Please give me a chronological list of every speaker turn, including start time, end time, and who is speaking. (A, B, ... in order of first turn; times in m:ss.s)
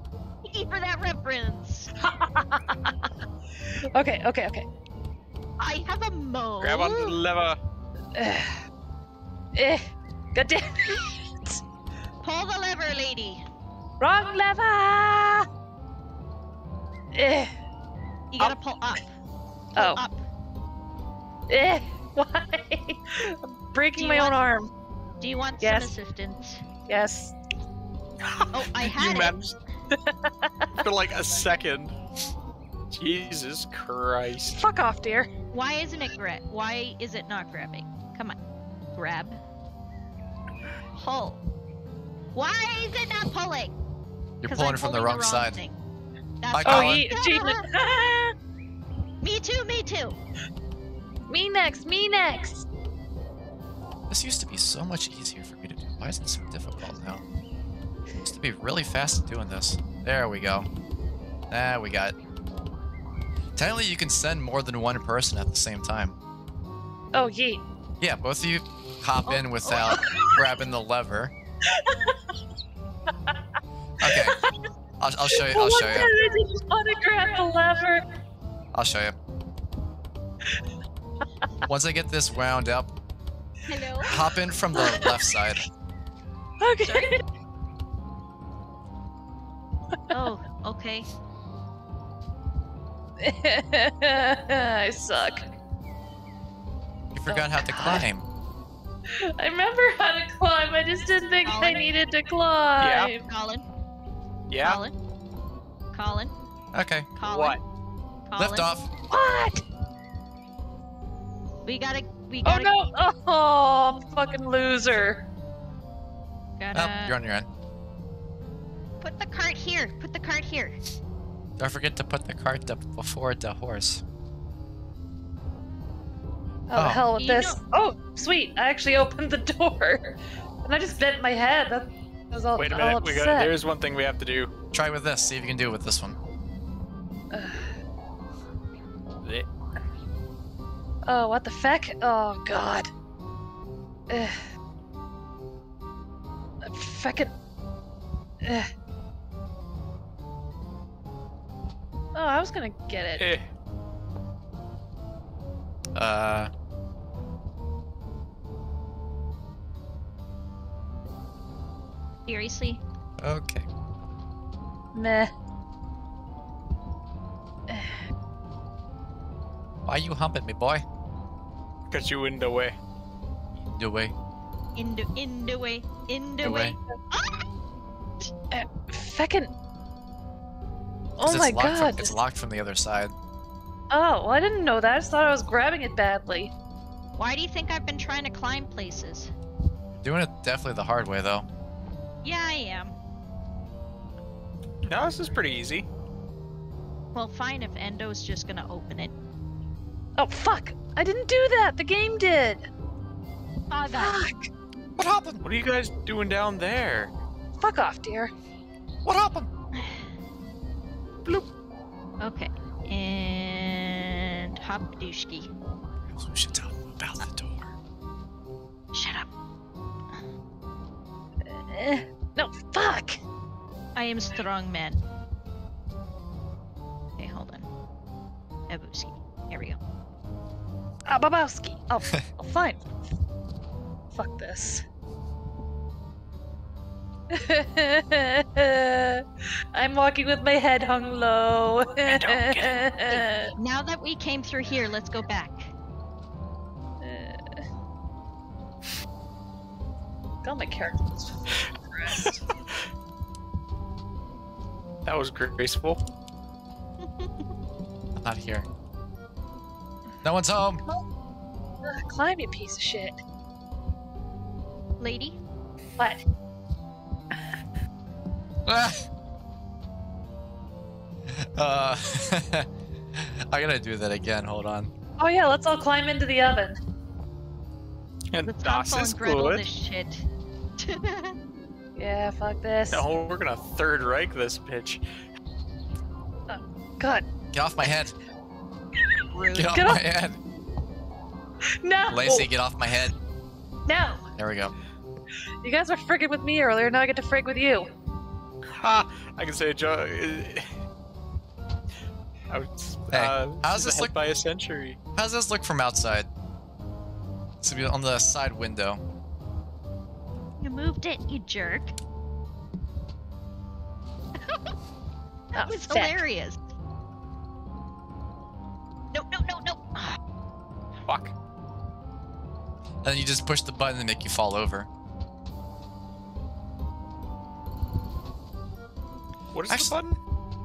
0:00.4-0:01.9 A
0:02.0-0:03.0 B
0:03.9-0:04.7 B
0:05.6-0:07.2 A
0:06.6-0:07.6 C
0:08.1-0:08.6 B
0:09.5-0:11.6 B
0:12.2-0:13.4 A
0:14.0-0:15.5 B
0:17.1-0:17.5 B
0:18.3-0:19.1 A
0:19.8-0:20.0 B
0:19.8-0:20.2 A
0:21.5-0:24.7 B
0:24.0-0:24.4 A
0:25.2-0:26.6 A
0:25.6-0:25.9 B
0:26.9-0:27.3 B
0:28.2-0:29.6 C
0:28.5-0:29.4 A
0:29.9-0:30.7 B
0:30.8-0:31.9 C
0:32.9-0:34.6 C
0:34.5-0:35.3 B
0:35.5-0:38.4 A
0:39.0-0:39.4 A
0:41.0-0:41.4 A
0:42.3-0:43.7 A
0:44.4-0:45.6 D
0:44.5-0:45.8 A
0:46.4-0:47.6 A
0:46.5-0:47.1 D
0:46.6-0:48.3 B
0:49.2-0:50.2 A
0:51.3-0:52.6 B
0:54.1-0:57.2 D
0:58.2-1:00.7 D
1:01.5-1:02.1 D
1:03.6-1:06.2 D
1:07.1-1:07.6 B
1:08.0-1:11.3 D
1:09.3-1:10.4 B
1:11.7-1:12.2 B
1:14.0-1:14.4 D
1:14.0-1:14.5 B
1:15.0-1:16.1 D
1:15.3-1:18.0 B
1:18.7-1:19.2 D
1:21.6-1:22.9 D
1:23.7-1:24.2 A
1:24.1-1:25.6 D
1:24.7-1:25.1 B
1:26.6-1:27.2 B
1:26.8-1:27.2 A
1:30.1-1:31.1 A
1:33.2-1:35.5 B
1:37.1-1:38.2 D
1:37.3-1:38.0 B
1:39.2-1:43.2 B
1:41.4-1:42.0 A
1:42.8-1:43.1 C
1:43.2-1:43.6 A
1:44.5-1:44.8 C
1:44.6-1:44.9 A
1:45.9-1:46.3 A
1:46.7-1:47.1 D
1:47.2-1:47.6 A
1:47.2-1:47.6 C
1:48.3-1:48.7 A
1:48.4-1:48.9 D
1:49.1-1:49.6 B
1:51.6-1:52.7 A
1:52.4-1:55.2 B
1:56.6-1:57.1 A
1:56.7-1:57.5 D
1:59.0-2:00.8 A
2:01.6-2:04.0 D
2:06.7-2:13.5 B
2:06.7-2:07.0 D
2:07.2-2:07.6 A
2:12.6-2:14.5 C
2:14.7-2:16.2 D
2:17.3-2:17.6 B
2:19.2-2:19.5 C
2:21.0-2:22.9 B
2:24.1-2:24.4 B
2:26.6-2:27.3 B
2:28.4-2:28.7 B
2:32.1-2:33.3 B
2:33.2-2:33.5 C
2:35.9-2:36.5 D
2:42.3-2:42.8 A
2:43.2-2:43.7 D
2:44.9-2:45.3 B
2:47.7-2:47.9 B
2:49.9-2:50.8 D
2:51.9-2:52.8 C
2:53.6-2:54.1 D
2:54.8-2:57.4 A
2:56.4-2:56.8 D
2:58.5-2:59.5 B
3:01.2-3:02.1 B
3:01.2-3:03.1 D
3:03.9-3:06.5 B
3:07.2-3:09.3 A
3:09.9-3:11.5 D
3:12.2-3:12.9 A
3:14.9-3:15.8 C
3:17.1-3:19.1 A
3:20.2-3:22.7 B
3:23.7-3:24.2 A
3:23.9-3:24.4 B
3:25.0-3:25.4 D
3:25.4-3:27.1 C
3:27.6-3:28.3 B
3:29.0-3:29.5 D
3:29.7-3:30.0 A
3:32.2-3:35.5 A
3:36.1-3:37.7 D
3:38.9-3:39.3 A
3:41.5-3:43.2 B
3:44.0-3:45.0 A
3:47.2-3:47.7 A
3:48.7-3:49.8 A
3:51.1-3:52.8 B
3:54.1-3:54.8 B
3:57.3-4:03.5 B
4:02.0-4:02.8 C
4:03.0-4:05.7 A
4:07.0-4:07.6 B
4:10.4-4:12.4 B
4:15.0-4:16.0 C
4:17.0-4:17.5 A
4:18.2-4:18.7 D
4:20.2-4:20.8 D
4:21.8-4:23.2 B
4:25.0-4:25.4 A
4:28.6-4:29.1 D
4:31.3-4:34.9 D
4:35.2-4:36.8 B
4:38.3-4:39.6 C
4:38.4-4:40.2 A
4:40.8-4:41.3 A
4:42.0-4:43.0 B
4:42.9-4:45.0 C
4:46.5-4:47.2 B
4:47.5-4:48.1 D
4:49.3-4:49.9 A
4:49.5-4:50.4 D
4:49.7-4:50.0 B
4:51.8-4:52.5 B
4:52.1-4:53.1 D
4:53.9-4:54.2 B
4:54.4-4:54.7 D
4:55.6-4:57.9 B
4:58.7-5:00.8 C
5:02.5-5:05.0 C
5:03.1-5:04.1 D
5:05.2-5:06.3 D
5:07.6-5:09.0 D
5:10.6-5:12.0 A
5:14.4-5:14.7 A
5:15.5-5:16.6 A
5:15.5-5:16.2 B
5:19.1-5:20.2 A
5:21.0-5:21.3 C
5:23.0-5:24.9 D
5:29.5-5:30.2 C
5:29.7-5:29.9 D